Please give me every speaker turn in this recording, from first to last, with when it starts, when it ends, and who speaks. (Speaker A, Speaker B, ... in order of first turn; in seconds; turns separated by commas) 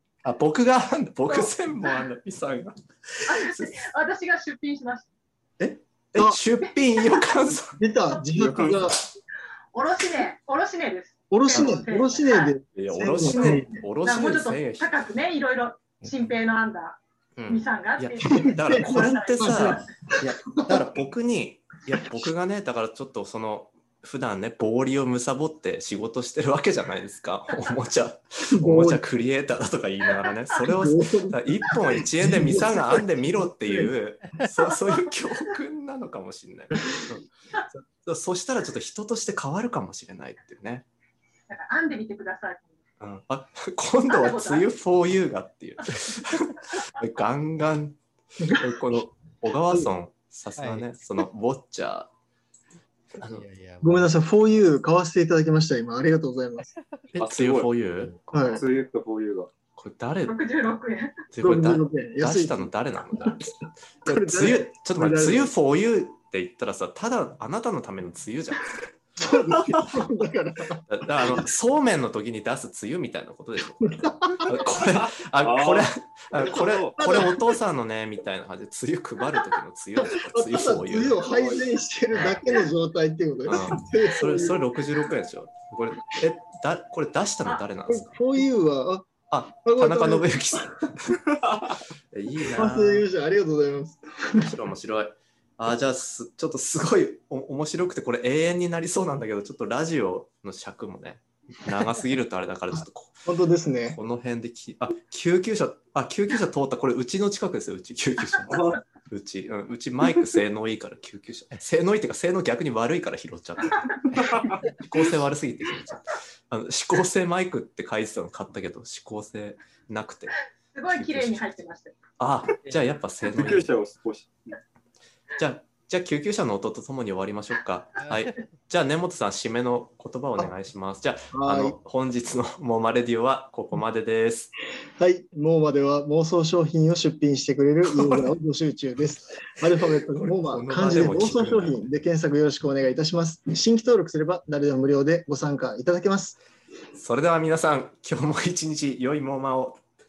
Speaker A: 0.2-3.8, Speaker B: 1.3-2.0, Speaker B: 3.3-5.1, Speaker A: 5.6-7.8, Speaker B: 6.6-7.5, Speaker C: 7.8-9.0, Speaker D: 8.3-9.0, Speaker B: 9.7-12.5, Speaker C: 11.3-13.8, Speaker A: 12.8-14.9, Speaker B: 13.3-19.8, Speaker E: 16.1-16.3, Speaker A: 17.4-37.3, Speaker C: 18.2-19.8, Speaker C: 20.5-20.8, Speaker C: 28.5-29.0, Speaker C: 30.7-31.4, Speaker C: 31.9-33.9, Speaker A: 38.0-40.9, Speaker B: 41.5-42.8, Speaker A: 43.0-48.0, Speaker B: 44.1-44.7, Speaker A: 48.6-52.1, Speaker E: 50.6-50.9, Speaker E: 53.1-54.2, Speaker A: 53.2-53.5, Speaker C: 53.8-56.7, Speaker A: 57.1-58.2, Speaker D: 57.2-57.7, Speaker C: 58.3-58.6, Speaker D: 58.5-59.5, Speaker A: 59.8-60.4, Speaker B: 60.2-61.2, Speaker A: 61.3-68.8, Speaker C: 61.4-63.3, Speaker C: 64.0-65.5, Speaker C: 69.2-70.8, Speaker A: 70.9-81.2, Speaker C: 73.8-74.7, Speaker D: 75.0-77.0, Speaker C: 77.0-77.4, Speaker C: 80.0-84.7, Speaker D: 81.2-81.7, Speaker A: 82.1-82.4, Speaker A: 83.5-88.1, Speaker C: 87.9-89.1, Speaker A: 89.3-91.2, Speaker C: 89.7-90.3, Speaker A: 92.1-93.0, Speaker C: 92.5-94.5, Speaker A: 94.4-103.2, Speaker C: 103.2-104.0, Speaker A: 103.9-120.3, Speaker D: 108.5-108.8, Speaker D: 114.2-114.6, Speaker B: 120.7-122.0, Speaker A: 120.9-121.6, Speaker A: 122.2-123.7, Speaker D: 123.2-124.6, Speaker A: 125.4-134.5, Speaker E: 128.0-128.3, Speaker C: 131.3-131.8, Speaker C: 135.0-146.4, Speaker A: 137.9-138.3, Speaker A: 140.2-141.8, Speaker A: 146.9-149.8